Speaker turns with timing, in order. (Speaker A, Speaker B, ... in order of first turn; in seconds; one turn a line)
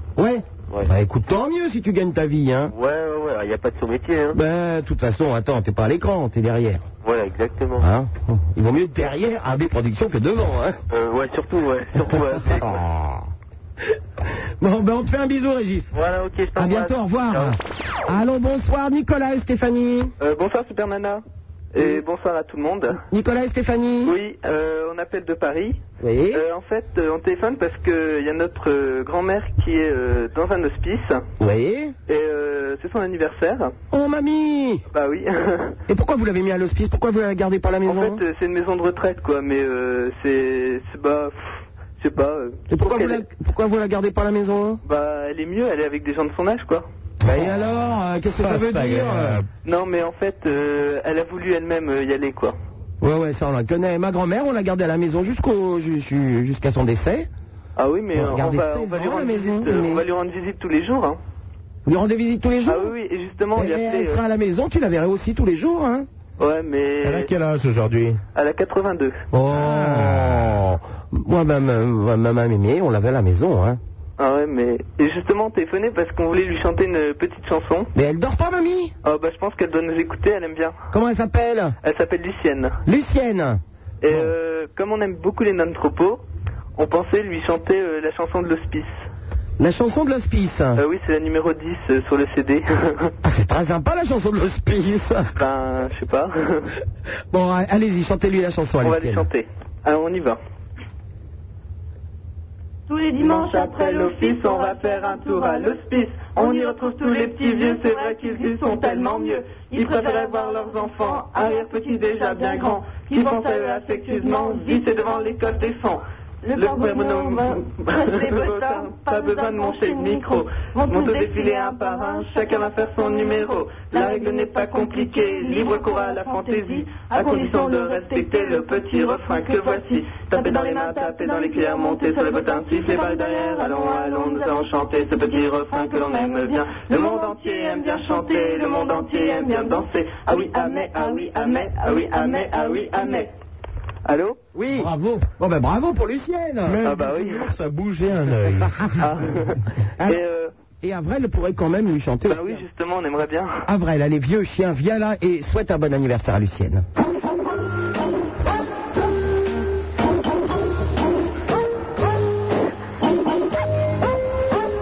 Speaker A: 0.2-2.7
Speaker B: 2.7-4.4
Speaker A: 4.3-6.8
Speaker B: 7.0-7.9
Speaker A: 7.8-10.8
Speaker B: 10.9-12.8
Speaker A: 14.6-15.9
Speaker B: 15.9-17.6
Speaker A: 16.6-20.1
Speaker C: 20.2-21.2
Speaker C: 21.7-23.0
Speaker A: 23.1-24.2
Speaker C: 24.1-25.8
Speaker A: 26.0-26.4
Speaker C: 26.3-31.2
Speaker A: 31.4-31.9
Speaker C: 32.1-33.7
Speaker A: 33.9-34.8
Speaker C: 34.9-35.8
Speaker A: 35.9-38.2
Speaker C: 37.9-43.2
Speaker A: 42.7-44.8
Speaker C: 44.9-46.9
Speaker A: 47.2-49.4
Speaker D: 48.3-49.5
Speaker C: 49.6-52.5
Speaker A: 53.0-57.3
Speaker C: 57.8-61.2
Speaker A: 58.1-60.0
Speaker A: 61.9-62.9
Speaker C: 62.7-64.2
Speaker A: 63.5-66.1
Speaker C: 66.4-67.3
Speaker D: 67.0-68.2
Speaker C: 68.3-69.2
Speaker A: 69.3-73.8
Speaker D: 69.5-70.6
Speaker C: 74.2-77.9
Speaker A: 77.9-78.9
Speaker C: 79.0-80.8
Speaker A: 80.9-81.8
Speaker C: 81.8-82.8
Speaker A: 82.9-84.3
Speaker C: 84.0-86.2
Speaker C: 86.8-89.1
Speaker A: 89.6-90.8
Speaker C: 90.8-93.1
Speaker A: 93.2-95.2
Speaker C: 95.4-96.7
Speaker A: 97.3-99.3
Speaker C: 98.8-100.4
Speaker E: 102.9-115.8
Speaker C: 103.2-116.0
Speaker E: 116.5-143.3
Speaker C: 116.5-143.3
Speaker C: 144.1-144.4
Speaker A: 144.6-146.9
Speaker D: 146.7-148.9
Speaker C: 146.9-147.5
Speaker C: 149.0-150.5
Speaker A: 150.8-152.6
Speaker C: 152.2-153.6
Speaker A: 153.7-156.8